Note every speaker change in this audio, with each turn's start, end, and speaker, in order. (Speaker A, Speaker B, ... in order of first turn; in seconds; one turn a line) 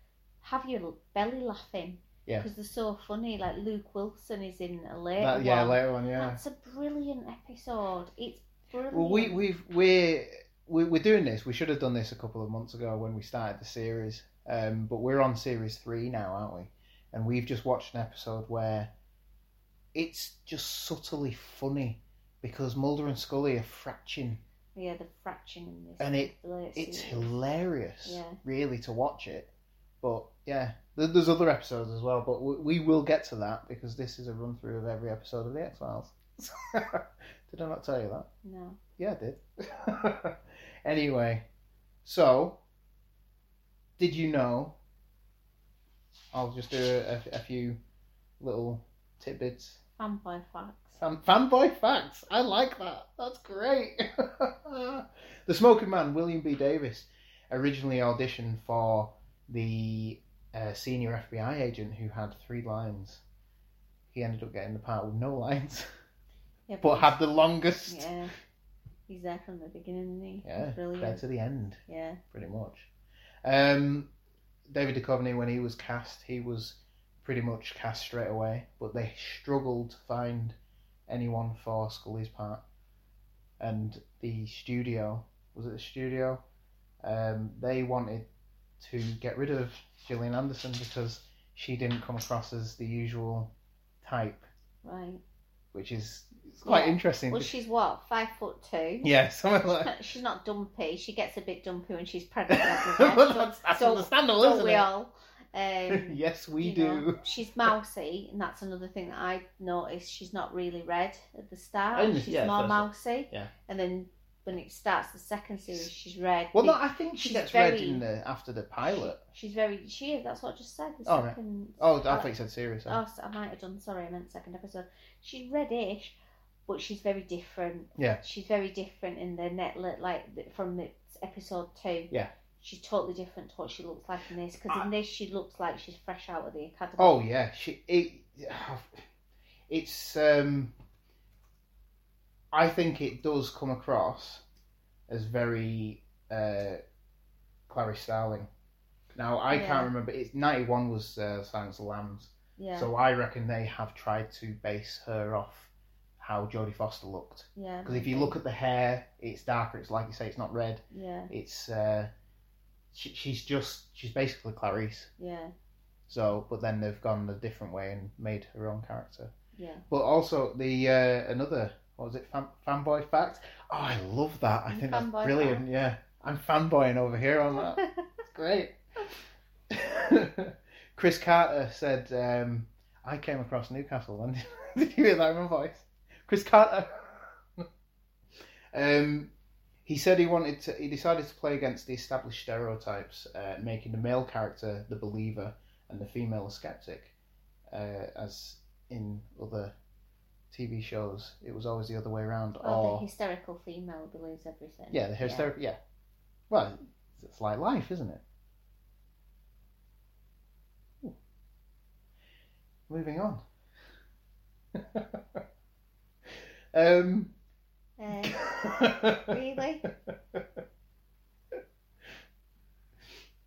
Speaker A: 0.4-9.4
Speaker B: 5.2-6.4
Speaker B: 8.9-18.9
Speaker B: 19.9-24.4
Speaker A: 24.8-27.4
Speaker B: 26.0-29.5
Speaker A: 28.0-28.4
Speaker B: 30.0-38.3
Speaker A: 38.4-38.8
Speaker B: 39.0-41.4
Speaker B: 42.0-42.6
Speaker B: 44.0-44.8
Speaker B: 46.3-47.8
Speaker B: 48.4-49.8
Speaker A: 50.0-51.0
Speaker B: 51.0-63.2
Speaker B: 64.1-65.9
Speaker A: 66.7-68.3
Speaker B: 66.8-68.2
Speaker A: 69.1-71.3
Speaker B: 70.4-72.9
Speaker A: 71.9-72.2
Speaker B: 73.4-74.1
Speaker B: 74.7-80.6
Speaker B: 81.1-82.6
Speaker B: 83.6-86.4
Speaker B: 87.0-88.3
Speaker B: 88.8-94.5
Speaker A: 94.8-95.2
Speaker B: 95.7-97.6
Speaker A: 96.7-99.1
Speaker B: 99.0-99.9
Speaker A: 99.8-118.0
Speaker B: 102.5-104.9
Speaker B: 105.9-107.7
Speaker B: 111.9-113.5
Speaker B: 116.5-119.2
Speaker A: 119.0-122.3
Speaker B: 121.0-123.0
Speaker A: 122.9-137.2
Speaker B: 128.0-128.2
Speaker B: 137.0-139.0
Speaker B: 139.7-140.7
Speaker B: 142.5-144.4
Speaker B: 145.1-146.8
Speaker B: 147.7-148.5
Speaker B: 149.2-162.1
Speaker A: 149.5-149.9
Speaker A: 152.6-152.9
Speaker A: 157.6-158.4
Speaker A: 160.9-161.3
Speaker B: 162.9-165.1
Speaker A: 165.2-165.5
Speaker B: 166.1-169.3
Speaker A: 169.6-169.8
Speaker B: 169.9-178.8
Speaker A: 174.7-175.6
Speaker B: 179.7-187.6
Speaker B: 188.7-189.3
Speaker B: 189.9-197.1
Speaker B: 197.7-199.7
Speaker B: 200.5-203.1
Speaker A: 202.6-205.5
Speaker B: 204.9-205.8
Speaker B: 206.5-208.2
Speaker B: 212.9-213.4
Speaker B: 214.8-215.4
Speaker B: 216.7-217.3
Speaker A: 218.0-219.9
Speaker B: 218.2-219.4
Speaker B: 220.1-220.4